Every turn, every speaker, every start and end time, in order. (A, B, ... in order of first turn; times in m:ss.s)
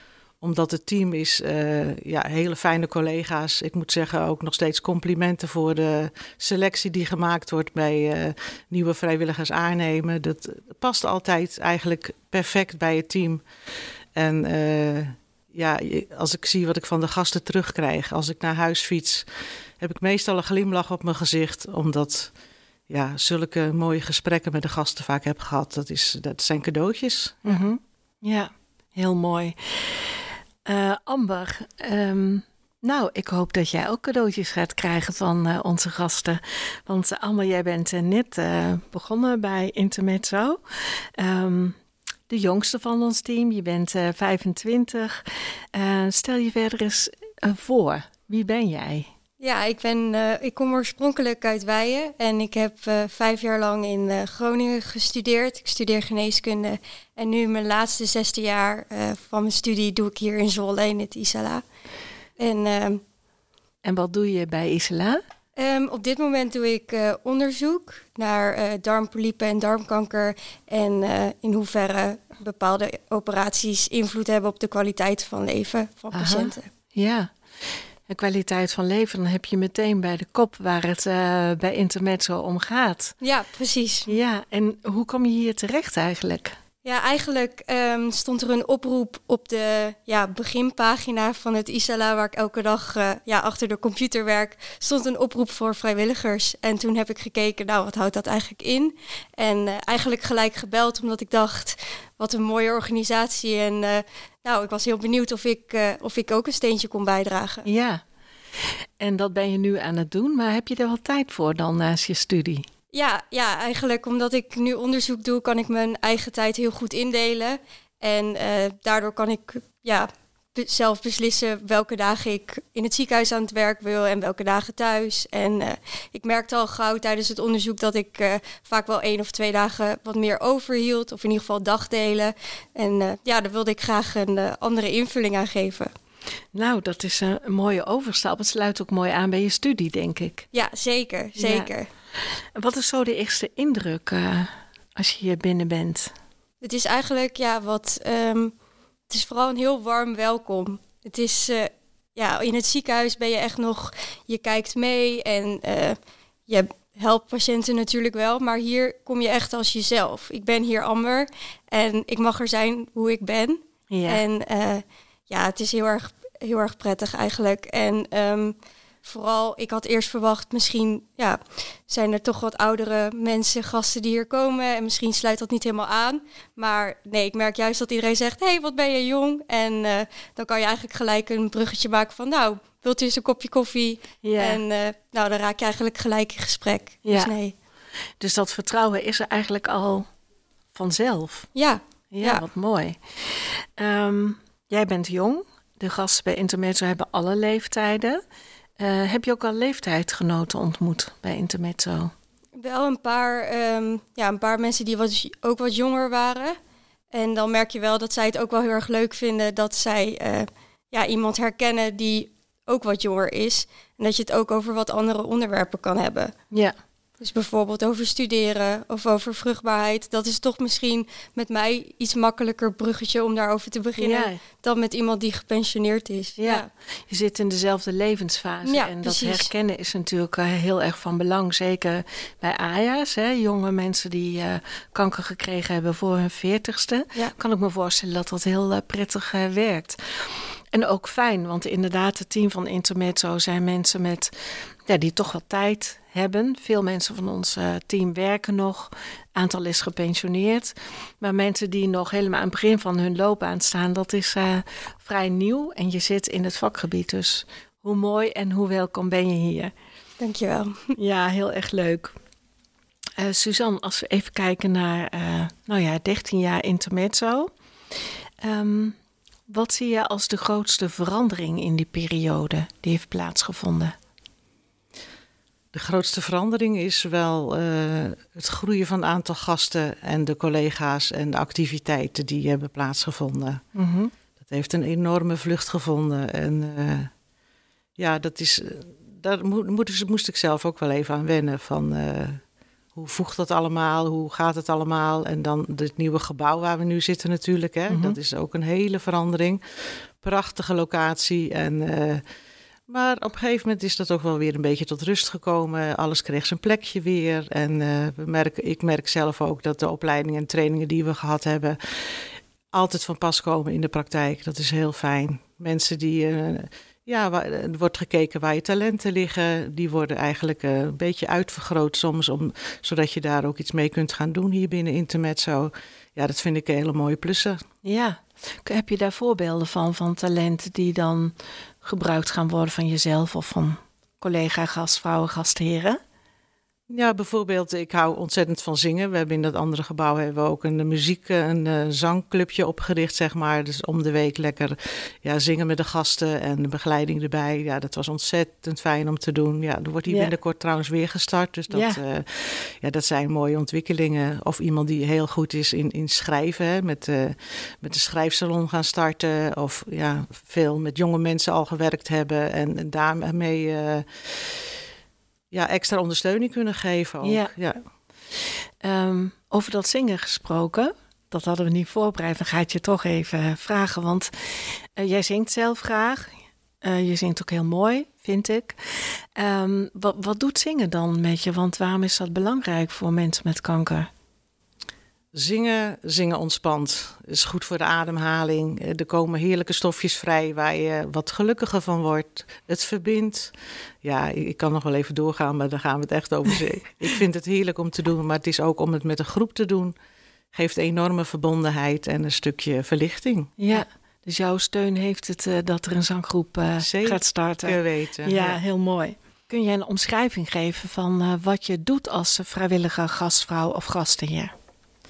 0:00.4-0:13.4 A
0:14.2-0:22.3 A
0:22.9-0:27.6 A
0:27.4-0:41.8 B
0:42.3-0:49.1 B
0:49.4-1:01.6 C
1:02.4-1:03.0 C
1:03.8-1:05.2 B
1:05.6-1:16.7 C
1:16.1-1:23.2 B
1:23.2-1:24.1 C
1:24.1-1:26.6 B
1:26.8-1:47.7 C
1:47.6-1:48.0 B
1:48.6-1:52.7 B
1:52.9-2:15.9 C
2:16.5-2:20.5 B
2:20.5-2:21.9 C
2:21.4-2:21.7 B
2:22.6-2:26.1 B
2:26.6-2:28.5 C
2:29.1-2:36.0 C
2:36.5-3:07.5 C
2:43.9-2:44.2 B
3:04.2-3:04.6 B
3:07.0-3:07.3 B
3:08.2-3:10.1 B
3:10.7-3:11.5 B
3:11.6-3:12.4 C
3:12.1-3:18.2 B
3:18.8-3:22.1 B
3:22.6-3:26.6 C
3:27.1-3:36.4 C
3:37.2-3:46.7 C
3:44.0-3:44.4 B
3:46.4-4:19.7 B
3:48.6-3:49.5 C
4:20.2-4:21.0 C
4:21.0-4:22.2 B
4:23.2-4:27.5 B
4:28.4-4:29.0 B
4:29.5-4:34.0 B
4:35.7-4:43.6 A
4:43.8-4:44.1 B
4:44.4-4:47.1 A
4:48.0-4:52.4 A
4:52.9-5:02.2 A
4:57.9-4:58.2 B
5:02.9-5:27.6 A
5:27.8-5:36.0 B
5:36.9-6:04.8 A
5:50.1-5:50.3 B
5:51.7-5:52.0 B
6:05.5-6:07.8 A
6:07.2-6:07.5 B
6:08.8-6:24.1 B
6:25.3-6:40.0 A
6:40.5-6:43.6 A
6:43.6-6:54.5 B
6:46.8-6:48.6 A